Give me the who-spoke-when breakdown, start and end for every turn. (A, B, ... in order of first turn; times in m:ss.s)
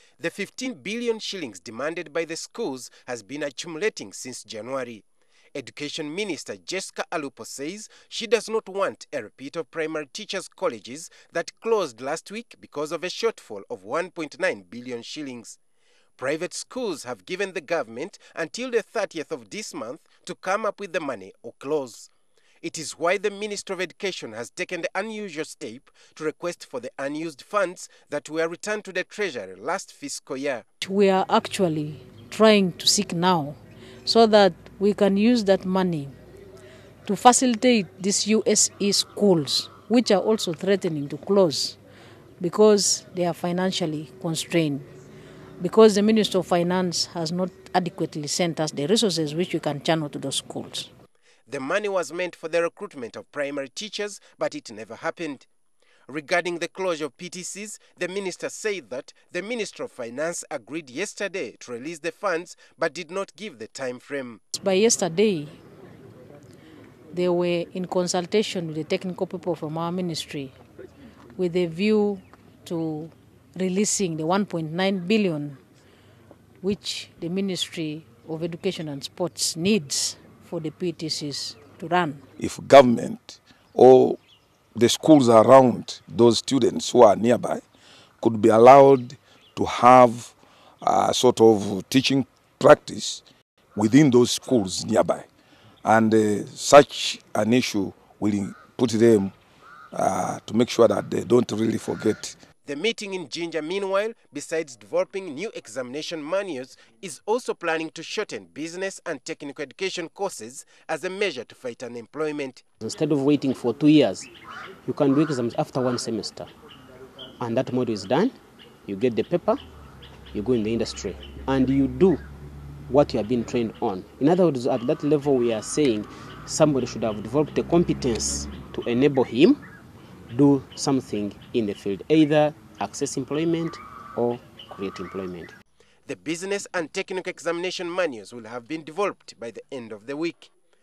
0:00.2-0:15.6 A
0:16.2-0:22.1 A
0:22.6-0:30.6 A
0:30.8-0:36.1 B
0:37.0-0:41.8 B
0:42.4-0:44.9 B
0:45.6-0:50.9 B
0:51.5-0:55.5 A
0:56.1-1:04.4 A
1:04.5-1:05.6 B
1:07.1-1:10.6 B
1:11.4-1:15.6 B
1:16.6-1:22.2 B
1:22.4-1:24.2 C
1:24.8-1:27.6 C
1:28.2-1:33.2 C
1:33.8-1:35.3 C
1:35.8-1:39.3 C
1:39.9-1:42.4 C
1:42.6-1:52.6 A
1:52.8-1:54.3 D
1:54.9-1:56.5 D
1:57.4-1:58.3 D
1:58.9-1:59.6 D
2:00.3-2:02.2 D
2:02.9-2:09.6 D
2:10.3-2:15.5 D
2:16.1-2:20.5 A